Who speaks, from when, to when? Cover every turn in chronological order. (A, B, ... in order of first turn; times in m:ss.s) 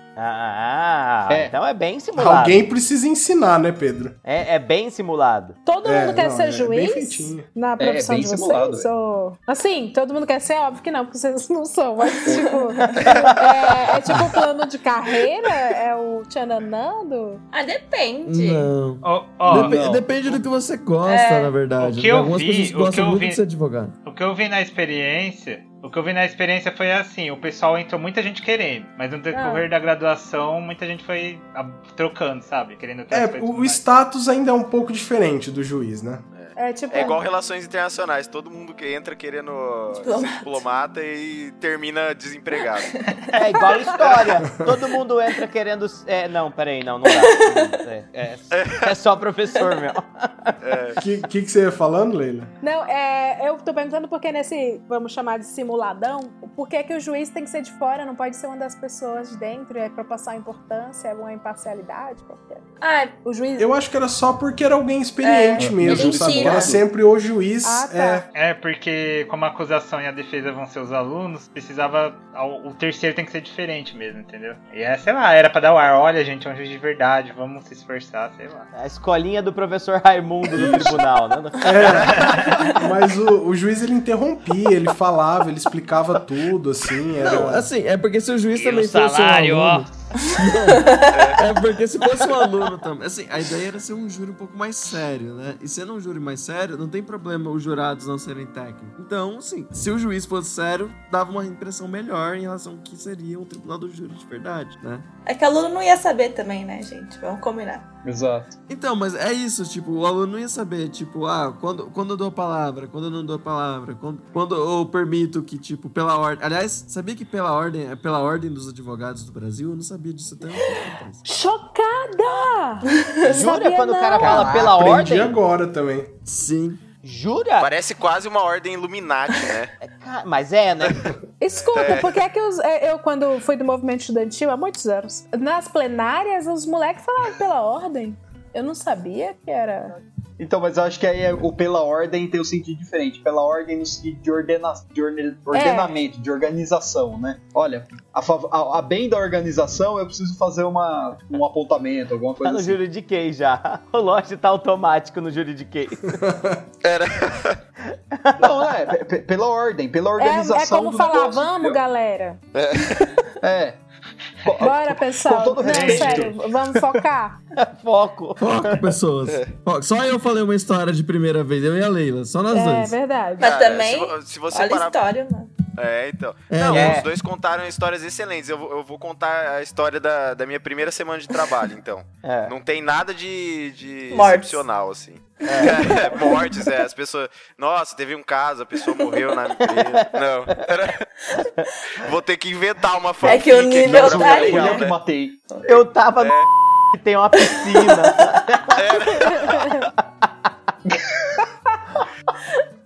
0:00.2-0:02.6 A
0:01.3-0:01.5 B
0:02.2-0:04.2 C
0:04.2-0:05.6 A
0:05.6-0:17.4 D
0:05.8-0:07.4 C
0:07.8-0:08.9 B
0:17.5-0:18.7 E
0:18.2-0:23.9 F
0:19.0-0:19.8 G
0:19.5-0:20.4 B
0:21.0-0:21.6 E
0:21.8-0:23.4 G
0:24.0-0:33.8 G
0:29.3-0:29.6 D
0:33.1-0:36.2 C
0:36.3-0:43.0 H
0:36.6-0:37.2 D
0:39.9-0:40.6 E
0:42.9-0:43.8 E
0:43.3-0:50.5 A
0:44.0-0:44.4 H
0:47.1-0:47.8 E
0:48.5-0:48.9 H
0:50.6-0:51.0 H
0:51.0-0:52.5 C
0:52.6-1:02.6 D
1:02.8-1:03.1 E
1:03.2-1:03.7 D
1:03.6-1:08.3 C
1:05.2-1:06.8 E
1:05.6-1:06.8 B
1:07.6-1:08.2 D
1:08.3-1:18.7 G
1:18.7-1:22.1 A
1:21.6-1:27.7 C
1:21.8-1:22.6 H
1:22.1-1:22.5 G
1:27.2-1:45.0 F
1:28.5-1:29.9 A
1:30.7-1:31.3 E
1:31.1-1:31.4 H
1:45.2-1:47.9 E
1:48.0-1:48.5 B
1:48.7-2:01.2 F
2:01.2-2:04.7 D
2:02.9-2:03.3 E
2:03.2-2:05.3 A
2:04.3-2:04.8 B
2:04.5-2:06.1 C
2:06.2-2:06.8 F
2:07.0-2:07.7 A
2:07.6-2:09.7 H
2:09.8-2:11.1 A
2:11.4-2:19.9 D
2:11.6-2:12.2 H
2:20.4-2:32.8 B
2:25.5-2:25.9 D
2:32.4-2:36.2 A
2:36.1-2:36.6 C
2:36.8-2:37.6 H
2:37.9-2:38.6 A
2:38.4-2:41.8 B
2:40.2-2:42.4 D
2:42.6-2:43.2 H
2:43.4-2:43.8 B
2:44.4-2:46.4 B
2:44.6-2:47.4 D
2:45.6-2:46.3 G
2:47.6-2:48.8 A
2:48.4-2:53.0 F
2:52.5-2:53.5 D
2:53.4-2:55.0 H
2:53.4-2:55.6 E
2:55.7-3:11.1 H
2:56.5-2:57.0 F
2:56.7-2:57.1 A
3:02.2-3:02.5 A
3:04.1-3:04.6 E
3:05.4-3:05.9 A
3:05.6-3:06.4 E
3:09.6-3:10.2 A
3:12.0-3:15.0 H
3:13.2-3:14.9 E
3:13.8-3:15.4 B
3:15.6-3:18.8 A
3:16.2-3:16.5 H
3:17.5-3:18.0 E
3:18.7-3:19.8 H